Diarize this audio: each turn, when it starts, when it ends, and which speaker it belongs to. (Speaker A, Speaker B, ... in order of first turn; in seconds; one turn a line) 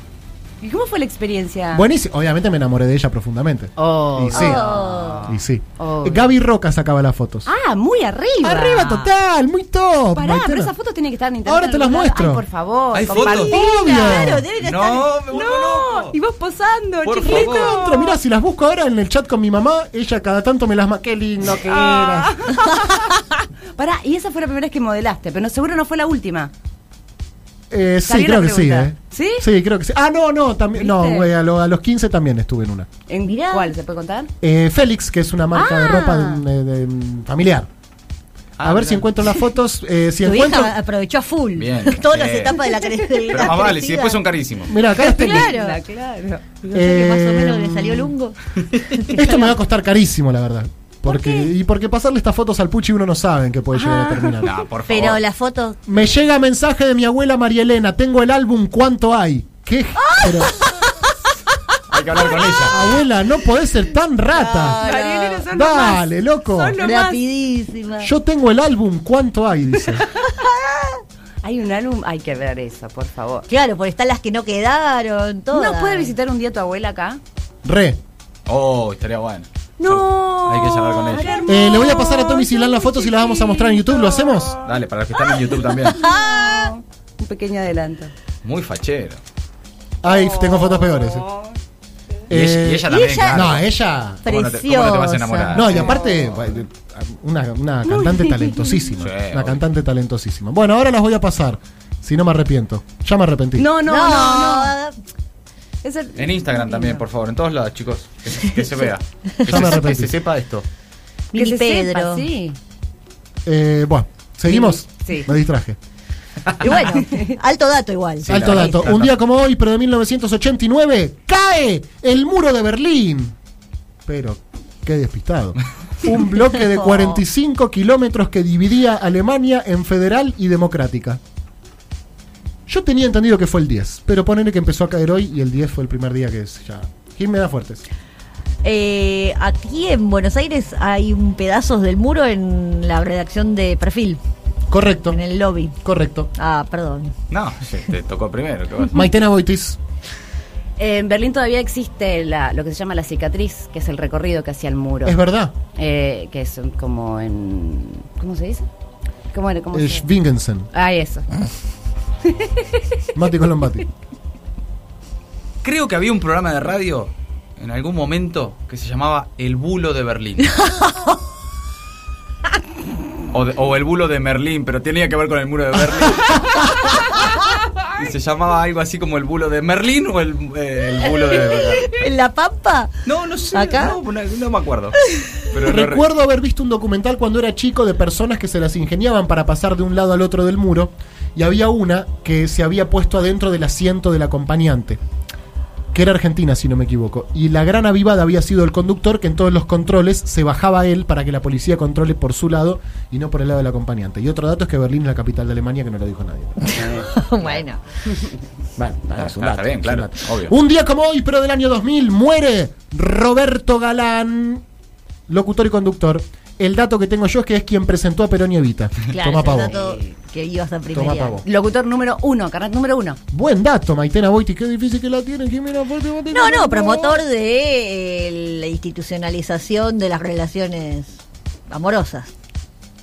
Speaker A: 0.6-1.9
Speaker B: 1.7-4.7
Speaker A: 3.8-6.3
Speaker C: 4.3-5.3
Speaker B: 5.3-7.5
Speaker A: 7.5-9.1
Speaker B: 8.4-10.7
Speaker A: 10.2-14.2
Speaker B: 11.4-12.4
Speaker D: 12.9-13.6
Speaker B: 13.2-14.5
Speaker C: 13.3-15.1
Speaker D: 14.6-16.1
Speaker A: 15.3-18.2
Speaker D: 17.0-17.8
Speaker B: 17.2-22.5
Speaker A: 21.6-26.5
Speaker B: 27.7-32.9
Speaker A: 28.1-29.5
Speaker A: 30.7-31.3
Speaker A: 33.1-34.3
Speaker C: 33.2-33.7
Speaker B: 34.4-37.7
Speaker A: 35.5-36.4
Speaker D: 38.6-39.1
Speaker B: 38.6-40.8
Speaker C: 40.2-44.2
Speaker D: 41.6-42.7
Speaker A: 42.8-43.7
Speaker D: 43.3-44.8
Speaker B: 44.7-45.5
Speaker A: 45.0-46.6
Speaker C: 45.0-45.8
Speaker C: 46.6-48.4
Speaker B: 46.7-48.1
Speaker D: 48.8-49.1
Speaker C: 48.9-49.5
Speaker B: 49.1-54.6
Speaker A: 53.7-54.4
Speaker D: 54.4-55.2
Speaker C: 54.9-55.8
Speaker B: 55.9-60.5
Speaker C: 60.2-60.5
Speaker D: 61.9-62.8
Speaker B: 62.7-64.8
Speaker C: 64.3-65.5
Speaker A: 64.7-67.2
Speaker B: 65.5-66.8
Speaker C: 66.8-68.1
Speaker B: 68.0-70.0
Speaker A: 69.9-70.5
Speaker A: 71.4-73.5
Speaker C: 73.5-76.2
Speaker A: 75.5-77.2
Speaker B: 77.6-78.0
Speaker D: 78.5-81.4
Speaker A: 79.8-84.6
Speaker B: 81.5-84.5
Speaker D: 84.6-86.0
Speaker A: 85.8-88.1
Speaker C: 86.0-86.7
Speaker D: 88.4-89.2
Speaker B: 90.0-91.3
Speaker A: 90.0-91.6
Speaker B: 92.3-94.2
Speaker D: 92.3-93.6
Speaker C: 92.9-93.6
Speaker C: 94.2-95.7
Speaker D: 94.2-96.5
Speaker B: 95.5-103.7
Speaker A: 95.7-96.3
Speaker A: 97.9-98.9
Speaker D: 99.0-99.6
Speaker A: 103.6-104.7
Speaker C: 103.9-105.0
Speaker A: 105.8-107.0
Speaker D: 106.2-110.7
Speaker B: 109.5-110.1
Speaker A: 111.3-112.6
Speaker C: 111.3-112.3
Speaker B: 113.5-115.8
Speaker A: 114.5-115.3
Speaker C: 116.6-118.9
Speaker A: 116.6-117.4
Speaker D: 118.2-119.2
Speaker B: 118.3-123.3
Speaker B: 124.1-131.2
Speaker C: 126.5-127.2
Speaker B: 132.7-137.8
Speaker C: 138.6-144.2
Speaker B: 144.7-145.2
Speaker C: 145.1-145.8
Speaker B: 145.8-146.3
Speaker C: 146.3-147.1
Speaker D: 147.3-149.0
Speaker B: 148.9-149.8
Speaker A: 150.8-155.2
Speaker B: 155.1-155.6
Speaker A: 155.8-158.7
Speaker A: 159.3-160.1
Speaker B: 159.7-160.7
Speaker A: 160.7-161.3
Speaker A: 162.2-162.8
Speaker B: 163.2-163.9
Speaker D: 165.6-170.7
Speaker D: 173.3-177.2
Speaker D: 177.9-181.9
Speaker C: 181.8-182.9
Speaker D: 183.1-186.1
Speaker C: 183.5-184.0
Speaker B: 185.6-195.0
Speaker B: 195.9-206.8
Speaker C: 206.7-207.8
Speaker A: 206.7-208.3
Speaker B: 208.8-214.6
Speaker D: 209.1-210.6
Speaker B: 215.3-219.7
Speaker A: 219.1-220.1
Speaker C: 219.2-221.4
Speaker B: 220.9-221.4
Speaker A: 221.4-223.2
Speaker B: 223.3-227.2
Speaker C: 226.3-232.3